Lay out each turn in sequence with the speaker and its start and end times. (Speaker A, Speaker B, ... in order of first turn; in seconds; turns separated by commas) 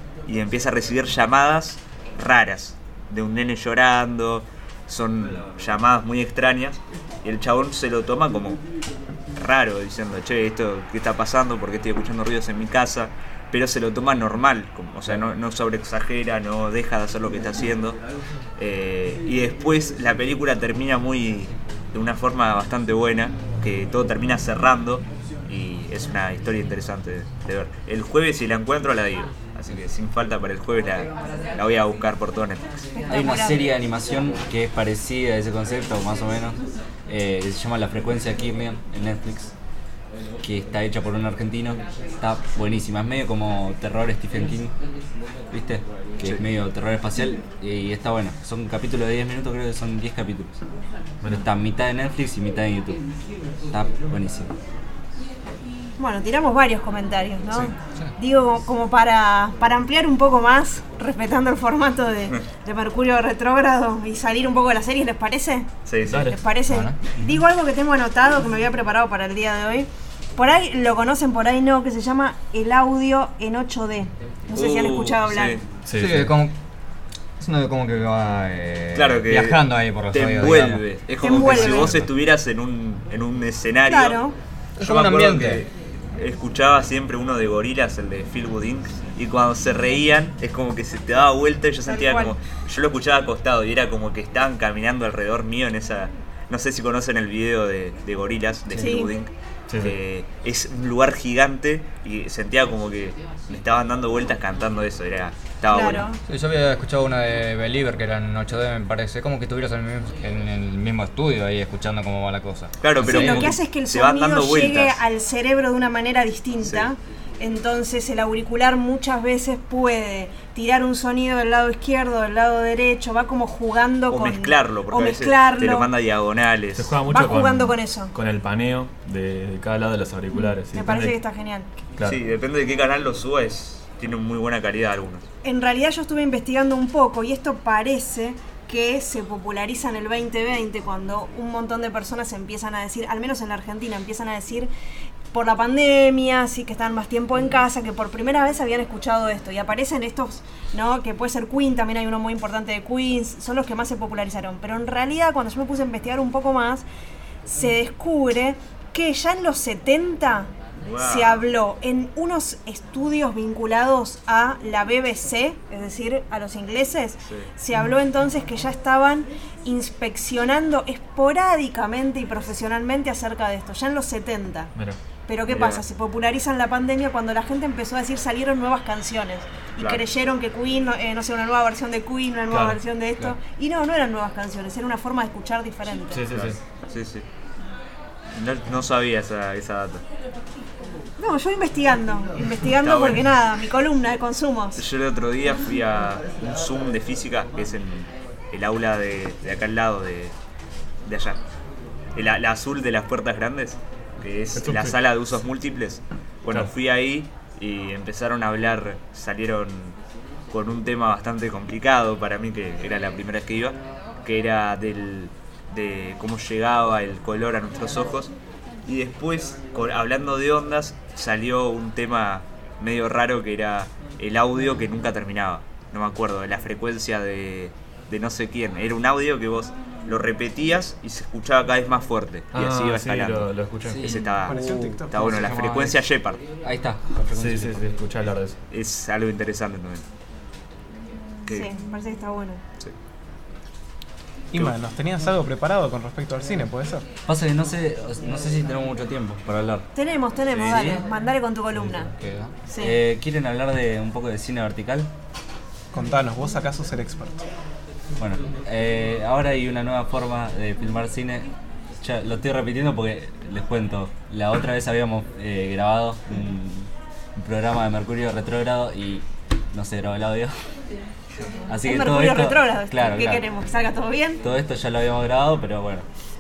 Speaker A: 0.3-8.6, Speaker A: 9.4-18.0, Speaker A: 18.6-32.9, Speaker B: 33.0-33.7, Speaker C: 33.1-39.5, Speaker C: 40.4-44.8, Speaker C: 45.5-50.6, Speaker C: 51.3-53.0, Speaker C: 53.7-54.5, Speaker B: 56.0-75.6, Speaker A: 65.9-66.3, Speaker D: 66.1-66.4, Speaker E: 66.7-67.0, Speaker A: 74.5-75.6, Speaker D: 75.9-76.3, Speaker E: 75.9-76.5, Speaker E: 77.4-80.8, Speaker A: 78.9-84.2, Speaker B: 81.2-81.9, Speaker E: 81.4-82.1, Speaker B: 83.9-84.4, Speaker E: 84.8-85.6, Speaker A: 84.8-106.1, Speaker B: 91.9-92.3, Speaker B: 98.7-99.1, Speaker D: 99.7-100.0, Speaker B: 105.7-106.2, Speaker E: 106.3-113.5, Speaker A: 112.8-115.0, Speaker B: 113.0-125.9, Speaker A: 116.6-116.9, Speaker A: 124.1-127.0, Speaker D: 126.8-131.2, Speaker B: 127.1-128.1, Speaker B: 130.3-131.7, Speaker D: 132.0-132.2, Speaker A: 132.0-135.2, Speaker B: 135.4-144.7, Speaker B: 145.3-156.8, Speaker B: 157.5-174.7, Speaker A: 160.8-161.4, Speaker B: 175.3-186.2, Speaker A: 175.5-175.8, Speaker A: 179.8-180.0, Speaker D: 182.5-182.8, Speaker D: 186.1-186.6, Speaker A: 186.3-187.2, Speaker A: 188.3-190.0, Speaker B: 191.2-194.8, Speaker A: 192.7-193.3, Speaker A: 194.8-200.3, Speaker A: 201.1-201.4, Speaker A: 202.2-210.0, Speaker D: 204.6-205.0, Speaker A: 210.5-218.3, Speaker A: 218.9-233.5, Speaker D: 232.5-234.2, Speaker C: 233.9-236.0, Speaker A: 234.0-234.6, Speaker F: 234.5-235.5, Speaker A: 235.1-236.4, Speaker C: 236.6-237.8, Speaker D: 237.3-238.6, Speaker A: 238.7-240.0, Speaker B: 241.5-242.6, Speaker F: 244.5-247.1, Speaker C: 247.3-249.9, Speaker B: 249.9-252.1, Speaker C: 250.7-251.0, Speaker C: 252.2-255.1, Speaker B: 252.7-253.0, Speaker F: 255.9-257.5, Speaker C: 258.2-270.6, Speaker C: 271.7-273.4, Speaker B: 271.8-274.4, Speaker C: 274.4-276.1